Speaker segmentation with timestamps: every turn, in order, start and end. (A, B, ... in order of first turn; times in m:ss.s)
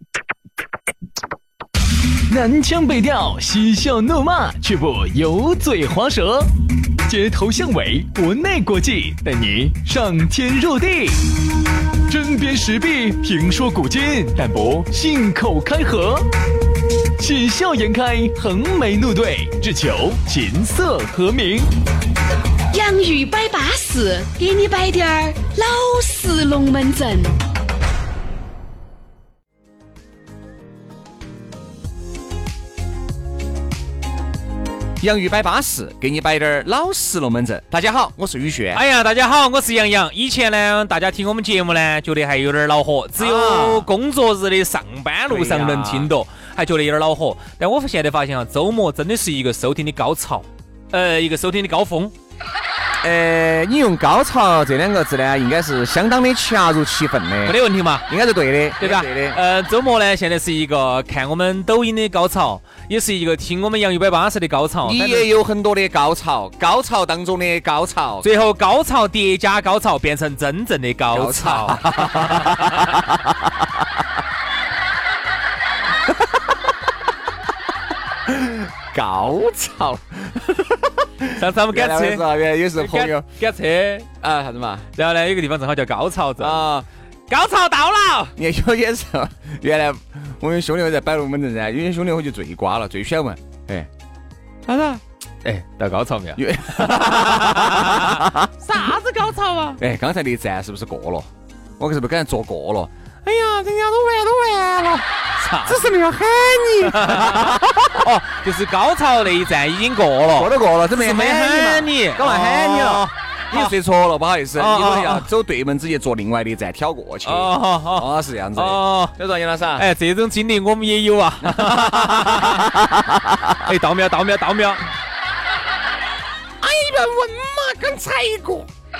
0:02.3-0:06.5 A
0:07.0-0:11.3 A
0:12.1-0:16.3 A
0:17.2-0:21.7 A
0:22.7-0:27.4 B
0:35.0-0:38.8 C
0:38.7-0:52.1 D
0:43.2-0:43.9 C
0:45.3-0:46.1 C
0:53.0-0:59.4 C
0:57.4-0:58.1 D
0:58.8-1:05.3 D
1:04.8-1:08.3 C
1:08.2-1:13.0 D
1:11.1-1:13.7 C
1:18.3-1:23.3 C
1:21.3-1:24.1 D
1:24.2-1:24.9 C
1:25.0-1:26.7 D
1:26.4-1:26.9 C
1:27.3-1:28.3 D
1:28.4-1:33.9 C
1:34.6-1:35.0 C
1:35.4-1:39.8 D
1:36.4-1:38.5 C
1:39.8-1:45.1 C
1:45.4-1:45.9 D
1:45.7-1:47.8 C
1:46.8-1:53.7 D
1:50.3-1:59.9 C
1:54.6-1:55.3 D
1:57.2-1:59.2 D
1:59.8-2:02.8 D
2:01.4-2:03.4 C
2:03.6-2:04.8 D
2:06.6-2:08.7 C